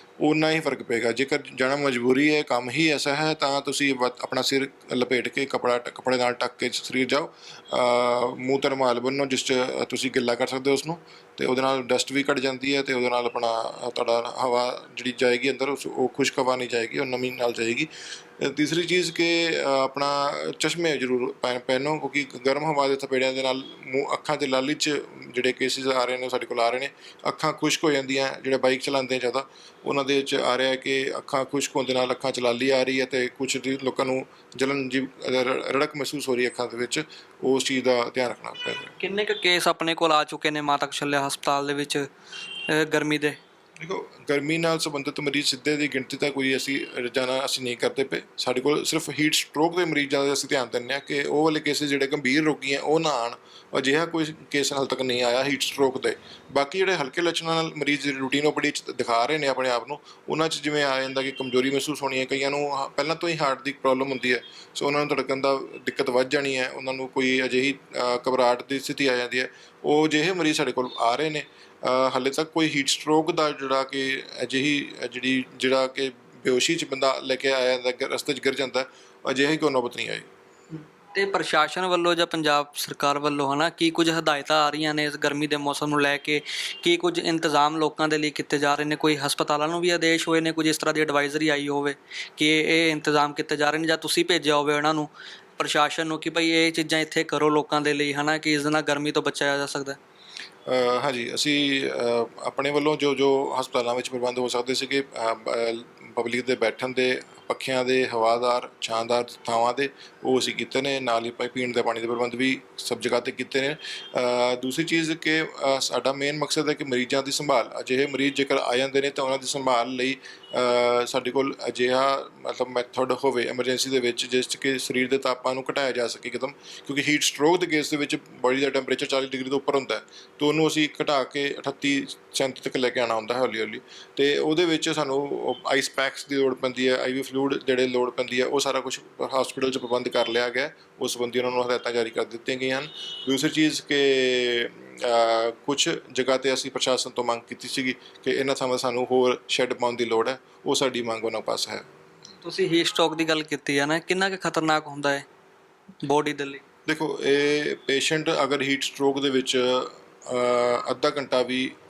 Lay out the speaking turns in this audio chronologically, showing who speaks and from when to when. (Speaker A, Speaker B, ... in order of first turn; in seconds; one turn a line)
Speaker A: 0.2-39.0
Speaker B: 39.0-42.1
Speaker B: 42.7-43.4
Speaker A: 43.8-80.3
Speaker B: 80.7-100.0
Speaker A: 100.7-151.8
Speaker B: 152.4-155.2
Speaker B: 156.0-156.6
Speaker A: 156.9-161.8